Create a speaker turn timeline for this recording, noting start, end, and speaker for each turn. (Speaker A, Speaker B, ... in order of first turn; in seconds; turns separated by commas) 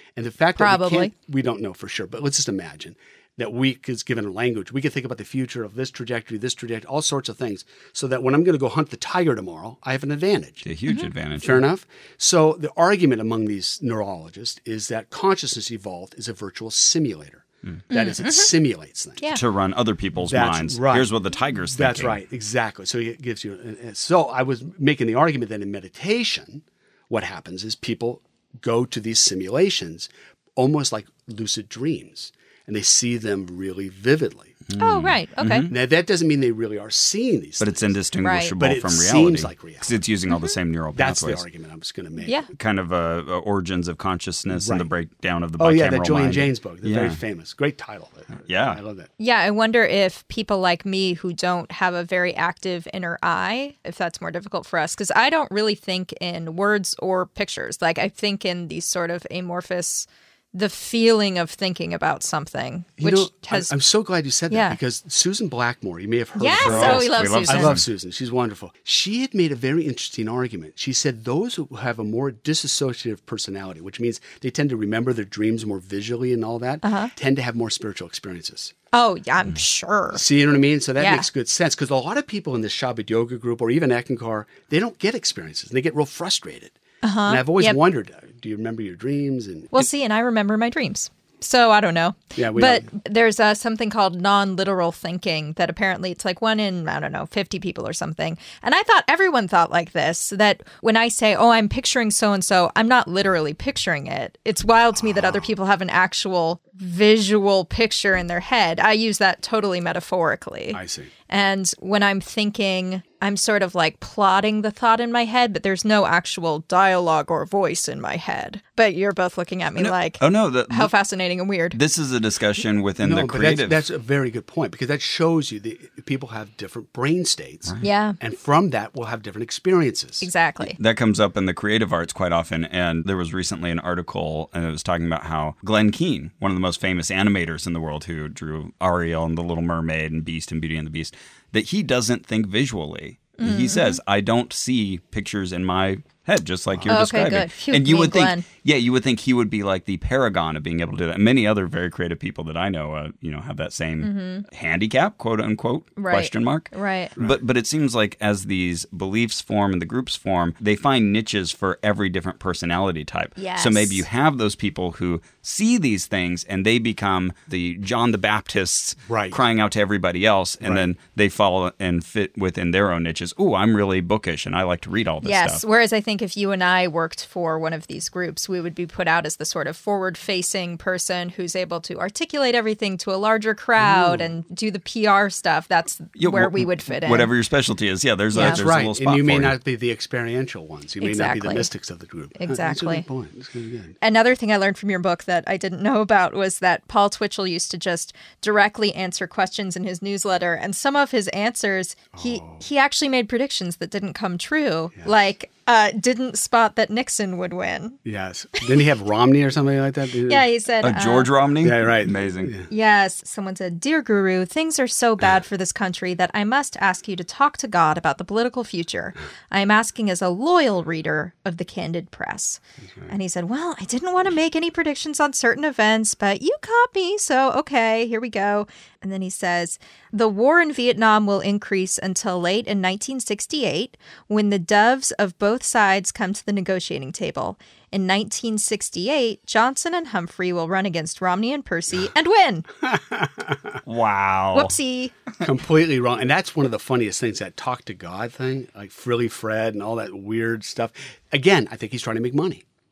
Speaker A: 0.2-10.7, Speaker B: 0.6-1.1, Speaker C: 10.6-11.7, Speaker A: 11.4-19.3, Speaker B: 17.9-18.5, Speaker C: 19.3-22.2, Speaker A: 20.2-21.1, Speaker A: 21.7-34.6, Speaker C: 34.7-35.7, Speaker B: 34.8-35.7, Speaker A: 35.7-38.0, Speaker C: 37.6-41.5, Speaker B: 38.2-38.5, Speaker A: 38.6-40.0, Speaker B: 40.3-40.5, Speaker A: 41.0-42.4, Speaker C: 42.5-47.2, Speaker A: 44.5-44.9, Speaker A: 45.6-49.1, Speaker C: 48.5-48.8, Speaker B: 49.2-63.7, Speaker A: 63.0-78.7, Speaker B: 64.5-64.8, Speaker B: 66.4-67.8, Speaker C: 66.6-67.8, Speaker B: 76.8-77.1, Speaker B: 78.9-80.2, Speaker A: 80.1-86.8, Speaker B: 81.0-81.3, Speaker B: 87.0-87.8, Speaker A: 87.3-89.9, Speaker B: 89.7-121.8, Speaker A: 92.4-92.9, Speaker A: 105.0-105.5, Speaker A: 110.7-111.1, Speaker C: 119.8-120.9, Speaker C: 121.7-123.8, Speaker A: 123.0-130.3, Speaker B: 127.8-128.2, Speaker B: 130.2-130.8, Speaker C: 130.6-175.6, Speaker B: 143.4-144.0, Speaker B: 146.9-148.4, Speaker B: 154.0-154.5, Speaker B: 156.0-157.2, Speaker B: 163.4-164.1, Speaker A: 169.1-169.4, Speaker B: 175.2-187.3, Speaker A: 183.8-184.3, Speaker C: 186.2-189.6, Speaker B: 188.3-188.6, Speaker A: 188.3-193.9, Speaker B: 191.0-191.7, Speaker B: 192.4-193.1, Speaker B: 194.0-208.0, Speaker A: 202.2-202.7, Speaker A: 208.1-210.5, Speaker B: 210.3-211.3, Speaker C: 210.8-212.5, Speaker A: 211.6-212.7, Speaker B: 212.7-242.7, Speaker A: 242.8-243.8, Speaker C: 243.9-244.8, Speaker B: 244.5-245.1, Speaker A: 245.4-252.6